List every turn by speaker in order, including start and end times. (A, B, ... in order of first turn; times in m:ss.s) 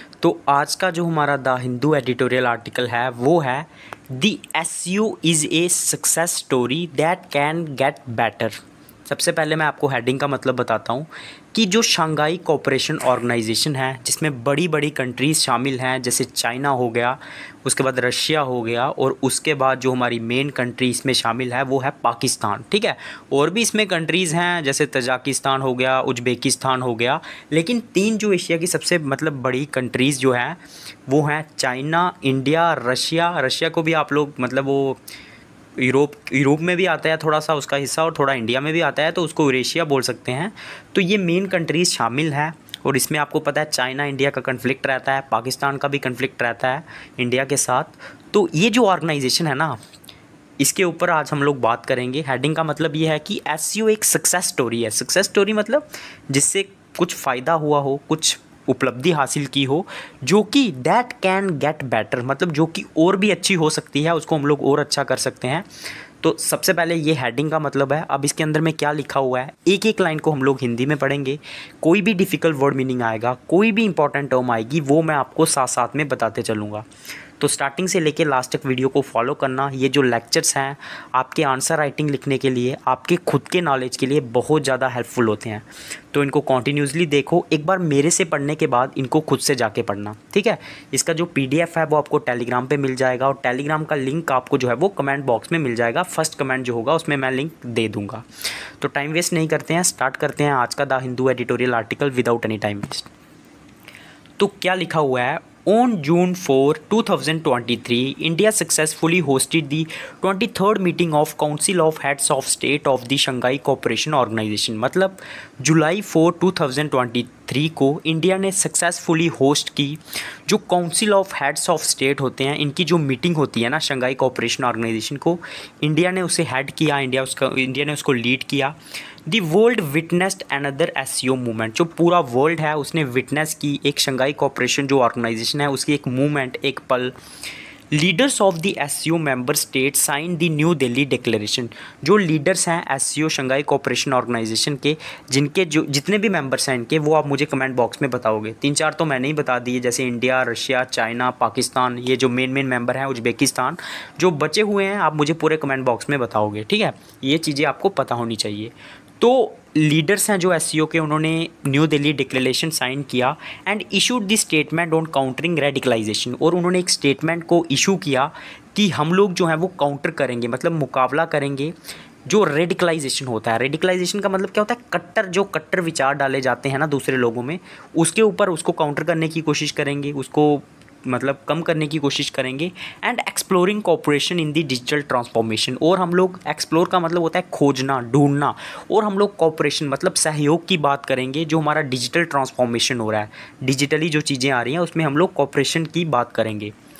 0:00.2-0:35.0 A
0:35.8-0:49.8 A
0:50.6-1:05.7 A
1:06.2-1:16.9 A
1:17.4-1:38.2 A
1:38.8-1:43.1 A
1:44.4-2:17.2 A
2:17.9-2:51.7 A
2:52.2-3:16.7 A